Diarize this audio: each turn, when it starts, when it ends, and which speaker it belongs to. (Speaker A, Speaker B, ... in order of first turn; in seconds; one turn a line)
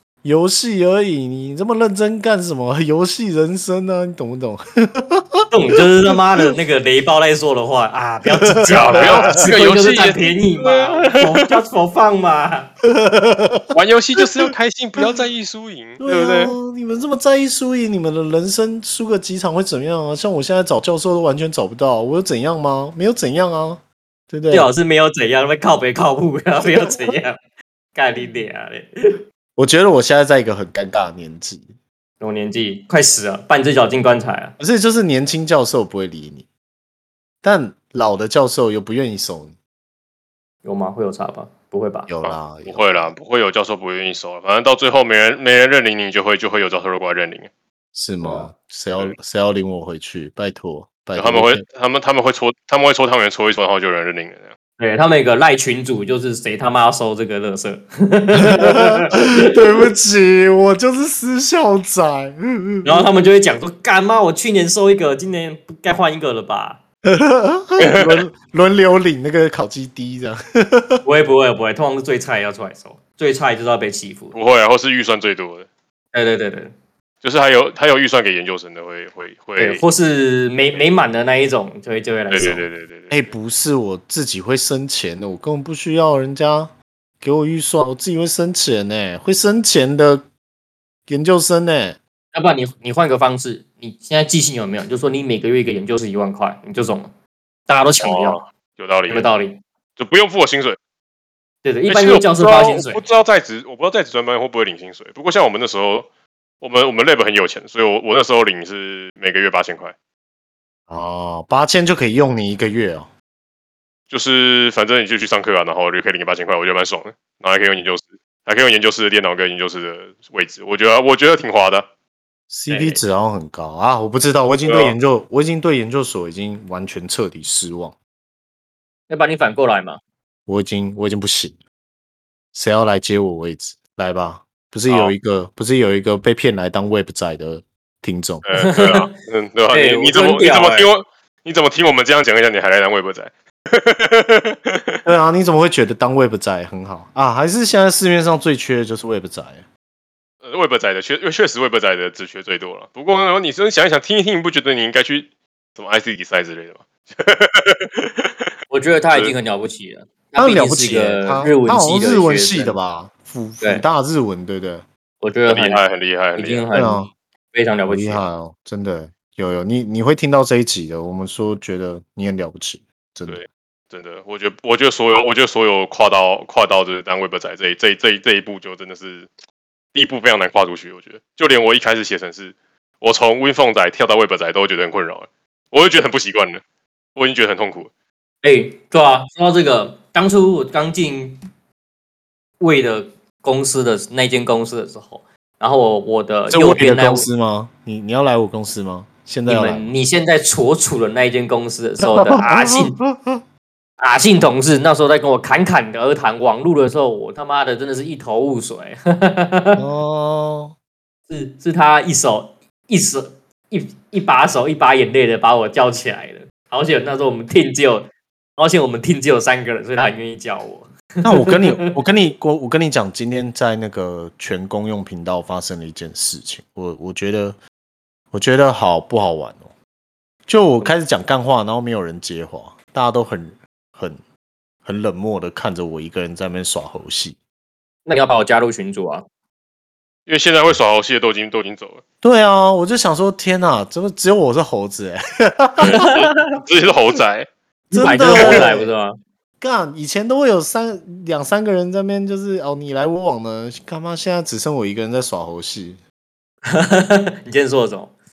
Speaker A: 0.2-6.5
Speaker B: 5.5-12.7
Speaker A: 8.2-9.5
Speaker C: 8.7-11.6
Speaker A: 12.8-15.2
Speaker C: 13.7-16.5
Speaker A: 16.0-24.7
Speaker B: 24.5-27.4
Speaker A: 26.8-27.1
Speaker B: 27.9-29.2
Speaker A: 29.6-31.7
Speaker B: 32.2-34.5
Speaker A: 34.6-36.5
Speaker A: 37.4-39.5
Speaker B: 40.6-42.1
Speaker A: 42.1-43.1
Speaker C: 42.2-47.5
Speaker A: 47.9-51.6
Speaker C: 51.1-54.5
Speaker B: 54.8-59.8
Speaker A: 58.4-63.1
Speaker B: 62.8-66.8
Speaker A: 67.0-71.0
Speaker C: 67.8-68.2
Speaker B: 71.0-74.3
Speaker C: 74.3-75.7
Speaker B: 76.1-76.7
Speaker C: 77.2-79.8
Speaker B: 79.6-82.7
Speaker C: 82.3-83.3
Speaker A: 83.1-90.3
Speaker A: 91.1-92.0
Speaker B: 92.3-97.1
Speaker B: 97.7-98.4
Speaker C: 98.0-99.3
Speaker B: 99.1-99.6
Speaker C: 100.0-100.8
Speaker B: 101.6-103.0
Speaker C: 101.9-106.1
Speaker C: 106.6-109.9
Speaker A: 110.9-113.1
Speaker C: 114.1-121.8
Speaker A: 122.5-128.0
Speaker B: 122.7-123.0
Speaker C: 124.6-124.9
Speaker B: 129.1-130.0
Speaker A: 130.5-131.6
Speaker A: 132.5-138.4
Speaker C: 138.4-145.0
Speaker B: 138.5-139.1
Speaker B: 139.7-140.9
Speaker A: 145.0-149.7
Speaker C: 150.4-158.5
Speaker B: 158.7-162.8
Speaker A: 160.4-164.8
Speaker B: 165.2-165.8
Speaker C: 165.5-166.7
Speaker B: 166.3-168.3
Speaker A: 166.7-167.1
Speaker A: 167.9-173.4
Speaker C: 173.2-179.3
Speaker C: 179.9-186.6
Speaker C: 187.2-187.9
Speaker B: 188.4-191.4
Speaker B: 192.6-197.3
Speaker A: 196.5-199.9
Speaker B: 199.5-203.0
Speaker A: 202.0-203.4
Speaker B: 204.0-209.8
Speaker A: 209.8-210.7
Speaker B: 211.3-221.8
Speaker A: 221.2-227.6
Speaker A: 228.3-229.7
Speaker A: 230.4-234.2
Speaker A: 234.8-237.4
Speaker B: 238.1-239.2
Speaker C: 240.3-242.0
Speaker A: 242.2-245.9
Speaker C: 245.8-247.5
Speaker B: 245.9-246.6
Speaker B: 247.9-249.2
Speaker A: 247.9-248.9
Speaker C: 248.3-248.6
Speaker A: 249.6-256.0
Speaker B: 256.7-258.1